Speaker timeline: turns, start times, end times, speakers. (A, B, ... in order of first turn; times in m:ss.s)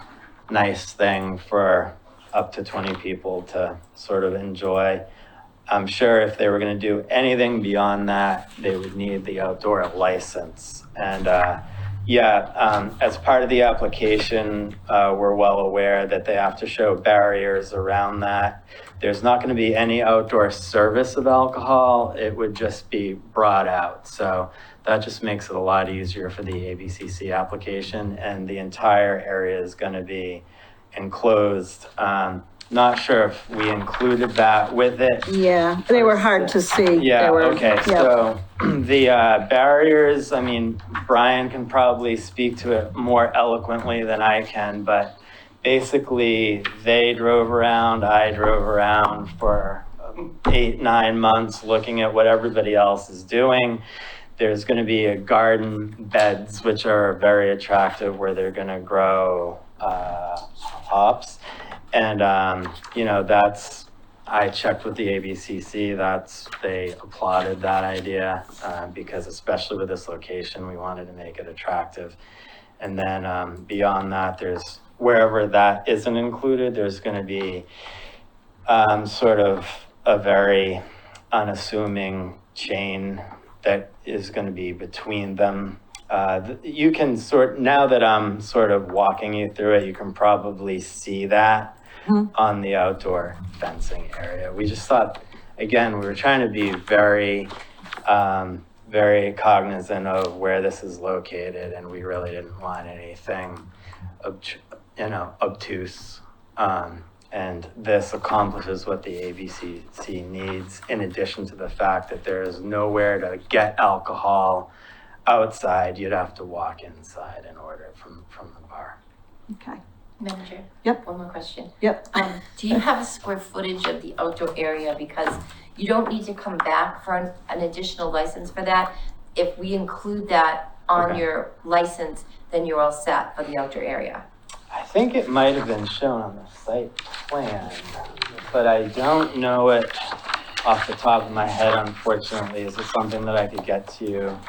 0:00.5-0:05.0 A
0:05.7-0:35.3 A
0:35.3-0:38.1 B
0:35.9-0:53.8 A
0:54.4-1:01.4 A
1:01.9-1:12.2 A
1:12.8-1:17.7 A
1:18.7-1:31.8 A
1:32.3-1:37.5 A
1:38.1-1:43.7 A
1:44.2-1:54.7 A
1:55.3-1:59.0 A
1:59.5-1:59.8 B
2:00.2-2:14.2 C
2:01.8-2:02.8 B
2:11.0-2:11.2 A
2:14.7-2:20.0 A
2:20.6-2:24.4 A